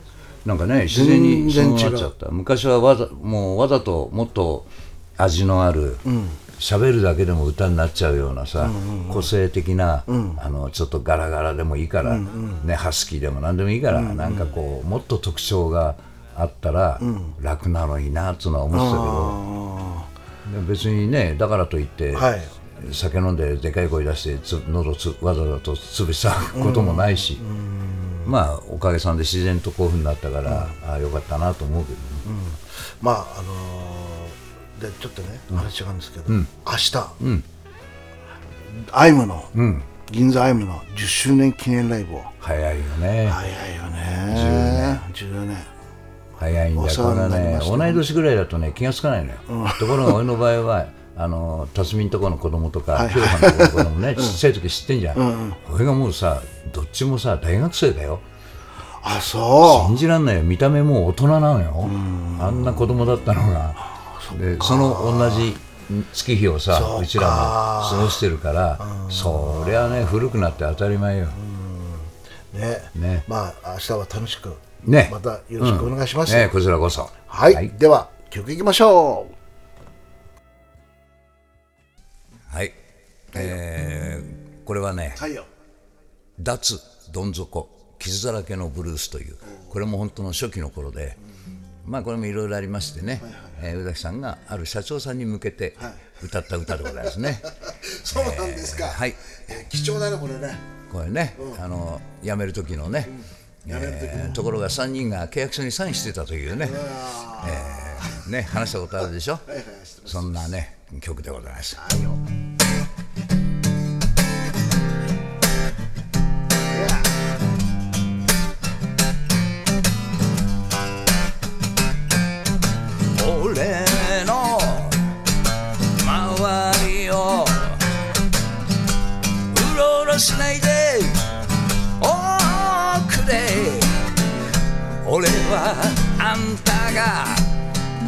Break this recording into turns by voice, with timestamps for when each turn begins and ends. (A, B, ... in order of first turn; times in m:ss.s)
0:00.4-0:06.0 A
0:00.9-0:02.1 B
0:06.0-0:06.4 B
0:06.6-0:19.4 A
0:08.6-0:09.3 B
0:10.1-0:10.4 B
0:12.0-0:12.6 B
0:13.9-0:14.5 B
0:17.0-0:17.4 B
0:18.7-0:20.1 B
0:20.5-0:27.4 A
0:22.1-0:22.5 B
0:26.5-0:28.3 B
0:28.2-0:32.3 A
0:30.5-0:30.8 B
0:32.2-0:37.2 B
0:37.2-0:37.4 A
0:38.7-0:39.5 B
0:39.6-0:39.9 A
0:40.0-0:42.3 B
0:42.4-0:43.4 A
0:43.3-0:45.7 B
0:44.3-0:45.0 A
0:46.4-0:58.2 A
0:46.8-0:48.0 B
0:49.5-0:50.2 B
0:52.9-0:54.4 B
0:55.2-0:55.6 B
0:59.0-1:00.0 B
0:59.6-1:11.4 A
1:01.8-1:02.9 B
1:03.8-1:05.6 B
1:06.7-1:08.2 B
1:08.8-1:10.2 B
1:11.3-1:16.5 B
1:13.0-1:13.3 A
1:14.8-1:17.7 A
1:17.3-1:19.3 B
1:22.5-1:22.8 A
1:23.3-1:25.2 A
1:25.2-1:25.5 B
1:26.4-1:31.2 A
1:31.8-1:37.5 A
1:33.2-1:33.6 B
1:35.8-1:36.0 B
1:36.8-1:40.6 B
1:38.0-1:39.4 A
1:40.9-1:49.5 A
1:43.1-1:44.5 B
1:46.6-1:48.2 B
1:49.5-1:50.4 B
1:50.1-1:51.8 A
1:51.8-1:52.2 B
1:56.7-1:57.1 B
2:03.1-2:05.2 A
2:05.9-2:07.9 A
2:09.5-2:11.3 A
2:12.0-2:14.0 A
2:15.0-2:17.6 A